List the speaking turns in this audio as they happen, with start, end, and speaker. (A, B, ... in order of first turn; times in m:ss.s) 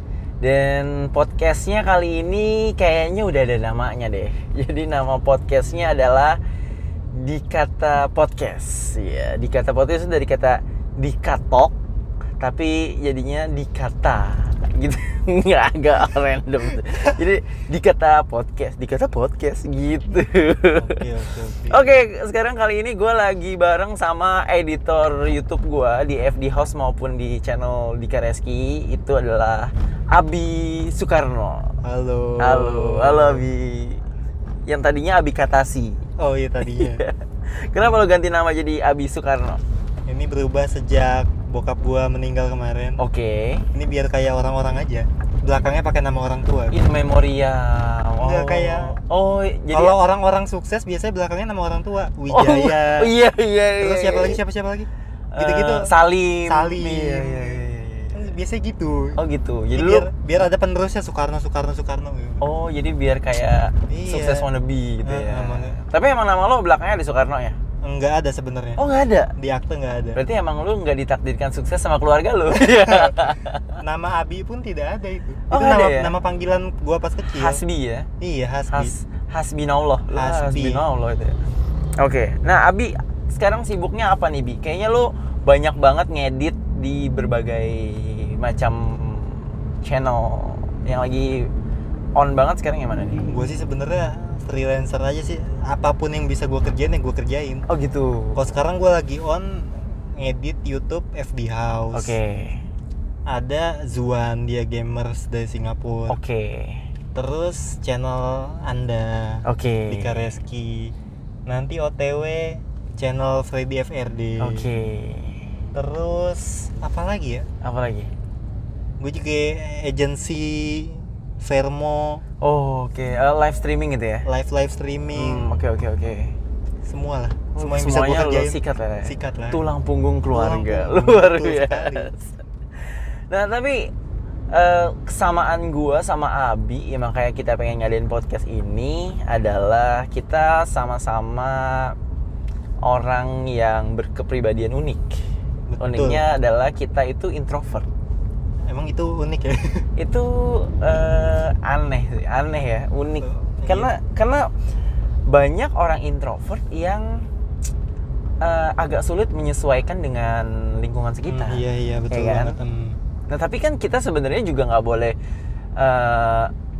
0:00.4-0:06.4 A
0:07.1-0:11.7 A
0:12.4-0:21.0 A
0:20.8-0:21.9 B
0:21.7-0:31.7 A
0:31.8-0:33.4 B
0:32.4-0:34.0 A
0:34.6-0:36.0 A
0:36.2-0:37.0 B
0:36.6-0:39.6 A
0:40.1-0:43.0 B
0:43.0-0:43.7 A
0:43.7-0:46.7 B
0:46.7-0:50.0 A
0:48.2-0:49.0 B
0:49.7-0:53.1 B
0:52.3-0:54.4 A
0:53.8-0:55.9 B
0:55.3-0:58.2 A
0:56.4-0:57.6 B
0:58.1-0:59.2 B
0:59.2-1:00.1 A
0:59.7-1:02.4 B
1:02.4-1:07.6 A
1:03.9-1:04.5 B
1:05.0-1:05.8 B
1:07.8-1:08.8 B
1:08.8-1:09.3 A
1:09.4-1:10.2 B
1:10.1-1:13.8 A
1:12.5-1:13.3 B
1:13.8-1:17.6 B
1:15.5-1:16.1 A
1:17.3-1:18.1 A
1:18.2-1:18.9 B
1:18.7-1:21.4 A
1:20.1-1:20.8 B
1:22.0-1:31.5 A
1:32.2-1:33.4 A
1:33.3-1:37.6 B
1:37.7-1:38.4 A
1:38.4-1:42.1 B
1:41.9-1:42.6 A
1:43.3-1:46.2 B
1:46.1-1:46.9 A
1:47.1-1:50.9 B
1:49.4-1:50.4 A
1:51.4-1:54.7 B
1:54.4-1:55.5 A
1:55.7-1:57.5 B
1:57.6-1:58.1 A
1:59.0-2:02.2 B
2:02.4-2:04.3 A
2:04.2-2:05.6 B
2:05.1-2:06.3 A
2:06.8-2:09.6 B
2:07.5-2:13.9 A
2:10.3-2:12.1 B
2:14.5-2:22.0 A
2:22.8-2:25.2 A
2:25.7-2:26.2 B
2:25.8-2:27.9 A
2:28.6-2:29.9 B
2:30.0-2:34.5 A
2:33.2-2:33.9 B
2:35.2-2:37.3 A
2:38.4-2:42.5 A
2:41.3-2:43.0 B
2:43.3-2:45.2 A
2:45.8-2:46.5 A